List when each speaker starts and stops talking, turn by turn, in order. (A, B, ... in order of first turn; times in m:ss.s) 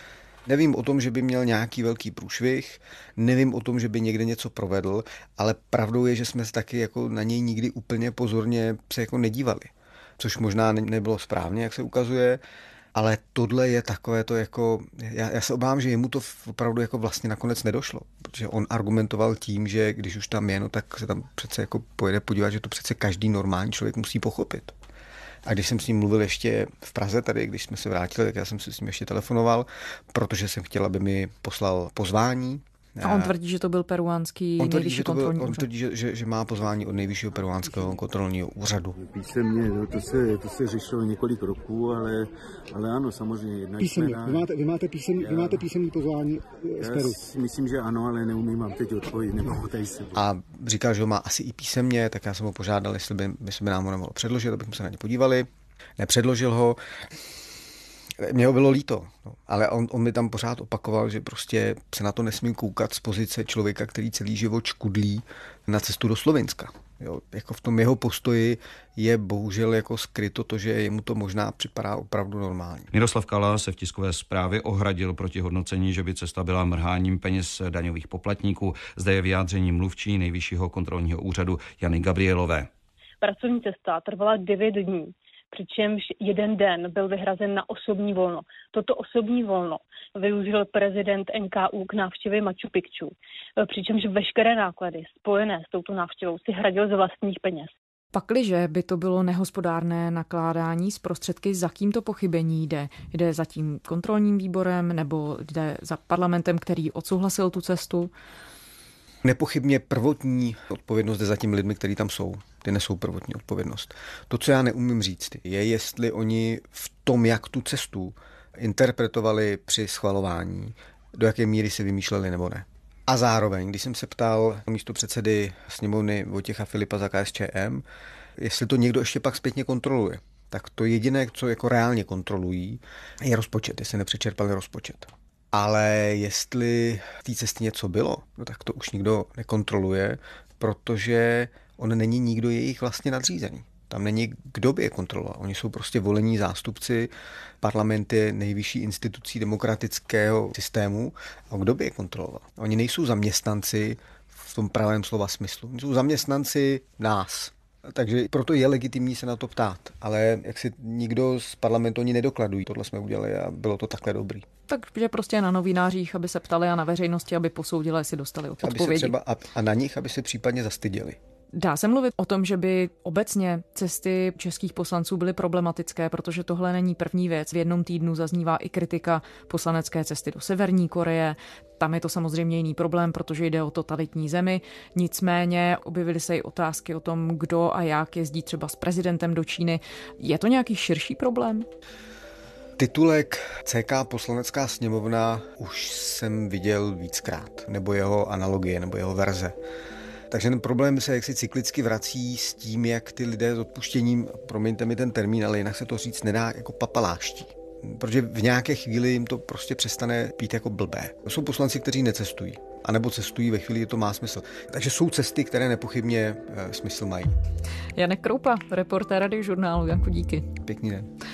0:00.5-0:12.4 A
0:12.9-0:24.7 A
0:25.4-0:33.3 A
0:33.0-0:35.6 B
0:34.6-0:39.0 A
0:39.0-0:44.5 C
0:43.8-0:47.2 D
0:45.2-0:45.6 C
0:46.8-0:50.3 C
0:50.1-0:56.8 A
0:58.2-1:12.9 A
1:12.9-1:22.7 E
1:23.2-1:33.1 F
1:33.6-1:37.7 F
1:38.1-1:48.1 B
1:49.2-2:07.8 A
2:08.4-2:27.1 A
2:27.6-2:44.4 A
2:44.7-2:49.1 B
2:48.6-2:51.2 A
2:51.5-3:11.7 B
3:12.8-3:19.6 A
3:20.3-3:37.3 A
3:38.0-3:40.5 B
3:40.6-3:41.1 A